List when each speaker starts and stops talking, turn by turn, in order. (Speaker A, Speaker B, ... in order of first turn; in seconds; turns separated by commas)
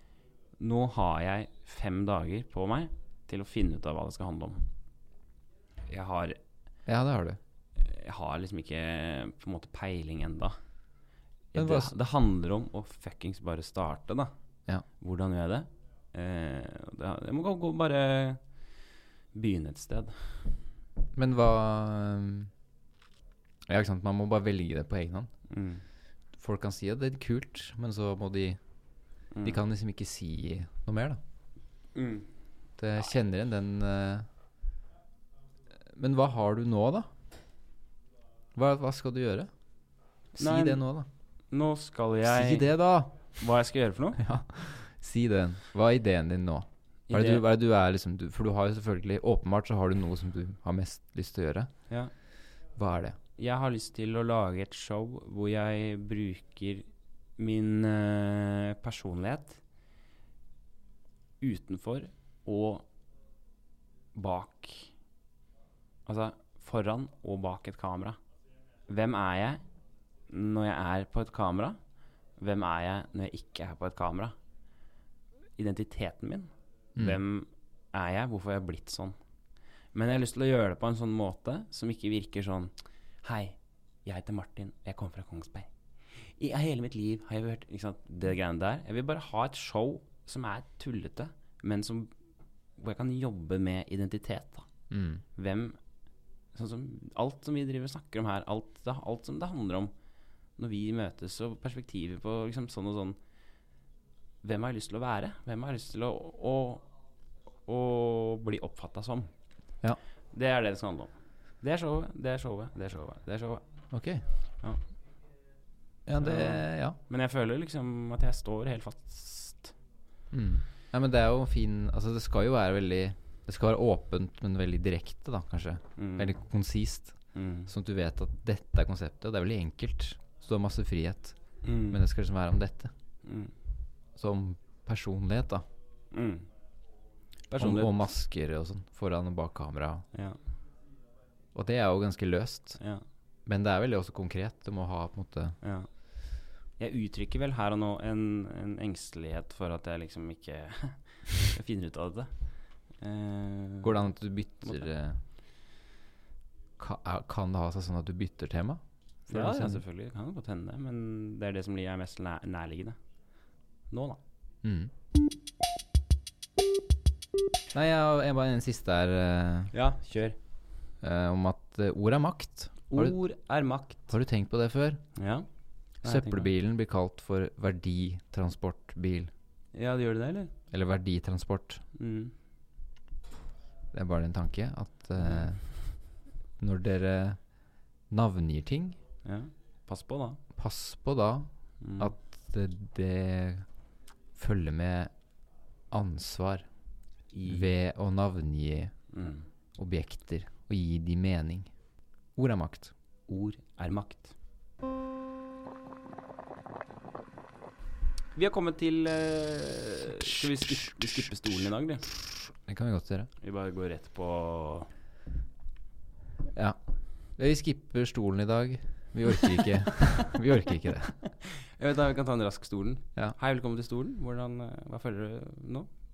Speaker A: 0.6-4.7, Speaker A: 5.9-6.4, Speaker B: 6.8-7.4, Speaker A: 7.8-10.6, Speaker A: 11.5-14.3, Speaker B: 11.6-11.9, Speaker A: 15.0-18.4, Speaker A: 19.3-20.5, Speaker B: 21.1-22.5, Speaker B: 23.7-25.3, Speaker A: 25.5-25.8, Speaker B: 26.4-28.6, Speaker A: 29.3-29.6, Speaker B: 29.4-31.2, Speaker A: 31.9-32.3, Speaker B: 32.8-34.2, Speaker B: 35.9-37.1, Speaker B: 38.5-39.5, Speaker A: 40.4-40.8, Speaker B: 40.4-41.1, Speaker A: 41.5-42.7, Speaker B: 42.2-43.3, Speaker A: 43.4-44.2, Speaker B: 44.2-51.7, Speaker A: 47.1-47.4, Speaker B: 52.8-53.2, Speaker A: 53.4-56.9, Speaker A: 57.4-59.6, Speaker A: 61.4-62.9, Speaker A: 64.1-64.9, Speaker A: 66.0-68.2, Speaker A: 68.9-69.6, Speaker A: 70.3-71.8, Speaker A: 72.4-74.3, Speaker A: 75.5-79.2, Speaker A: 79.9-92.1, Speaker A: 92.8-94.7, Speaker B: 94.9-95.2, Speaker A: 95.3-95.8, Speaker A: 96.5-99.9, Speaker A: 100.6-103.2, Speaker A: 104.4-106.9, Speaker A: 107.7-109.3, Speaker A: 110.3-113.6, Speaker B: 113.9-114.2, Speaker B: 116.0-117.0, Speaker A: 116.2-119.7, Speaker B: 120.3-131.3, Speaker A: 126.0-126.3, Speaker A: 127.3-127.7, Speaker A: 131.6-132.0, Speaker B: 131.9-132.9, Speaker A: 133.2-133.5, Speaker B: 134.2-135.6, Speaker A: 136.1-136.5, Speaker A: 137.5-138.0, Speaker B: 137.6-140.0, Speaker A: 140.1-140.4, Speaker B: 141.5-142.8, Speaker A: 142.8-143.0, Speaker B: 143.4-145.6, Speaker A: 145.6-145.9, Speaker A: 146.8-152.4, Speaker A: 153.0-154.1, Speaker B: 153.8-155.2, Speaker B: 156.8-159.8, Speaker A: 159.3-163.0, Speaker A: 163.9-164.2, Speaker B: 164.6-164.9, Speaker B: 167.7-169.7, Speaker A: 169.7-170.4, Speaker B: 171.0-173.2, Speaker A: 172.9-174.1, Speaker B: 174.1-175.0, Speaker A: 175.2-175.5, Speaker A: 176.0-176.5, Speaker B: 176.0-179.3, Speaker A: 179.7-180.5, Speaker B: 180.7-181.8, Speaker A: 181.9-182.3, Speaker B: 183.9-185.7, Speaker A: 185.2-185.5, Speaker B: 186.6-187.4, Speaker B: 188.1-189.0, Speaker A: 189.2-190.4, Speaker B: 190.6-193.7, Speaker A: 191.8-192.1, Speaker B: 194.3-195.1, Speaker B: 195.9-196.7, Speaker A: 197.3-197.7, Speaker B: 197.5-198.9, Speaker A: 199.1-199.4, Speaker B: 199.8-201.7, Speaker B: 202.3-202.9, Speaker A: 203.3-204.3, Speaker A: 208.3-212.1, Speaker B: 212.6-213.3, Speaker A: 213.4-214.9, Speaker B: 217.4-221.2, Speaker A: 221.4-225.9